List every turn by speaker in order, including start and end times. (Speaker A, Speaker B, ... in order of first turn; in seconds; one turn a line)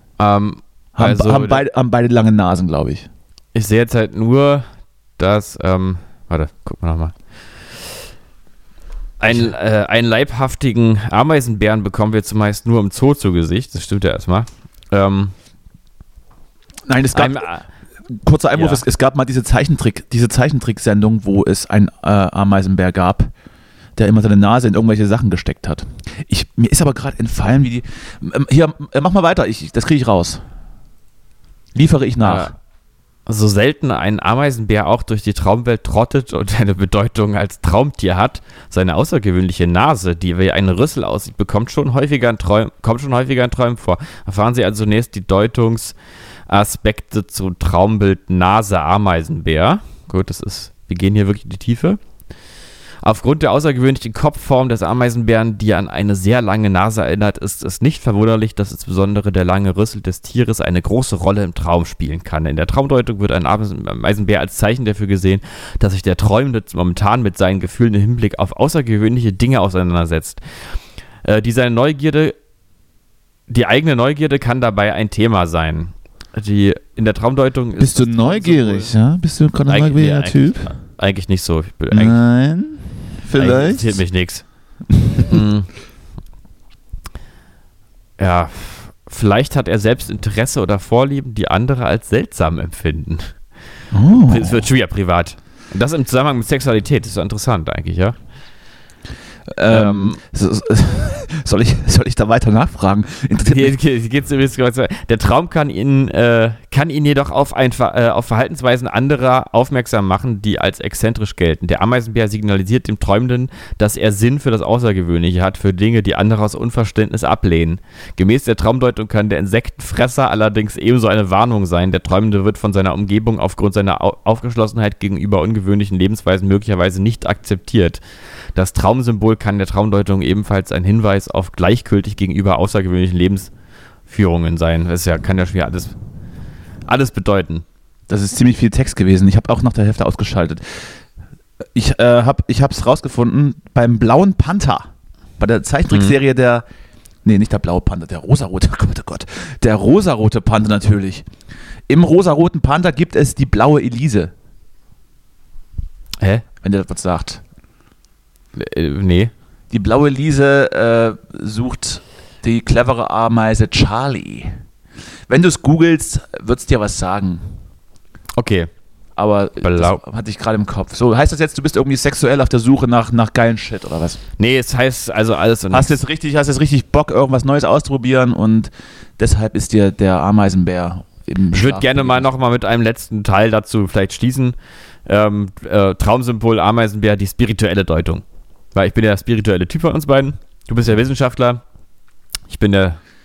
Speaker A: 0.2-1.6
Speaker B: 0.9-3.1
Speaker A: 3.5-4.7
Speaker A: 5.2-7.1
Speaker A: 9.2-15.3
Speaker B: 9.2-9.5
Speaker B: 16.9-17.5
Speaker A: 17.1-17.6
Speaker B: 18.1-23.3
Speaker A: 18.5-18.8
Speaker B: 23.9-30.4
Speaker B: 31.7-32.5
Speaker A: 32.2-32.5
Speaker A: 33.3-45.9
Speaker A: 46.5-52.0
Speaker A: 53.0-70.4
Speaker A: 71.2-72.3
Speaker A: 73.5-78.9
Speaker B: 77.8-80.7
Speaker A: 79.7-82.2
Speaker B: 81.9-84.0
Speaker A: 83.3-84.4
Speaker B: 85.0-85.4
Speaker A: 85.2-85.7
Speaker A: 88.2-93.3
Speaker B: 93.9-94.7
Speaker A: 94.2-98.2
Speaker B: 99.5-103.8
Speaker A: 99.7-100.2
Speaker A: 103.4-128.0
Speaker A: 128.5-133.5
Speaker A: 134.1-135.9
Speaker A: 136.9-137.6
Speaker B: 138.1-140.9
Speaker B: 141.7-144.9
Speaker B: 145.4-146.6
Speaker B: 147.2-151.2
Speaker B: 151.9-154.3
Speaker B: 156.6-157.4
Speaker A: 158.6-159.3
Speaker B: 159.7-164.5
Speaker B: 165.3-167.4
Speaker A: 168.4-168.7
Speaker B: 169.2-174.2
Speaker A: 169.6-170.0
Speaker A: 174.4-175.9
Speaker B: 175.7-182.3
Speaker A: 181.5-191.6
Speaker A: 192.5-193.0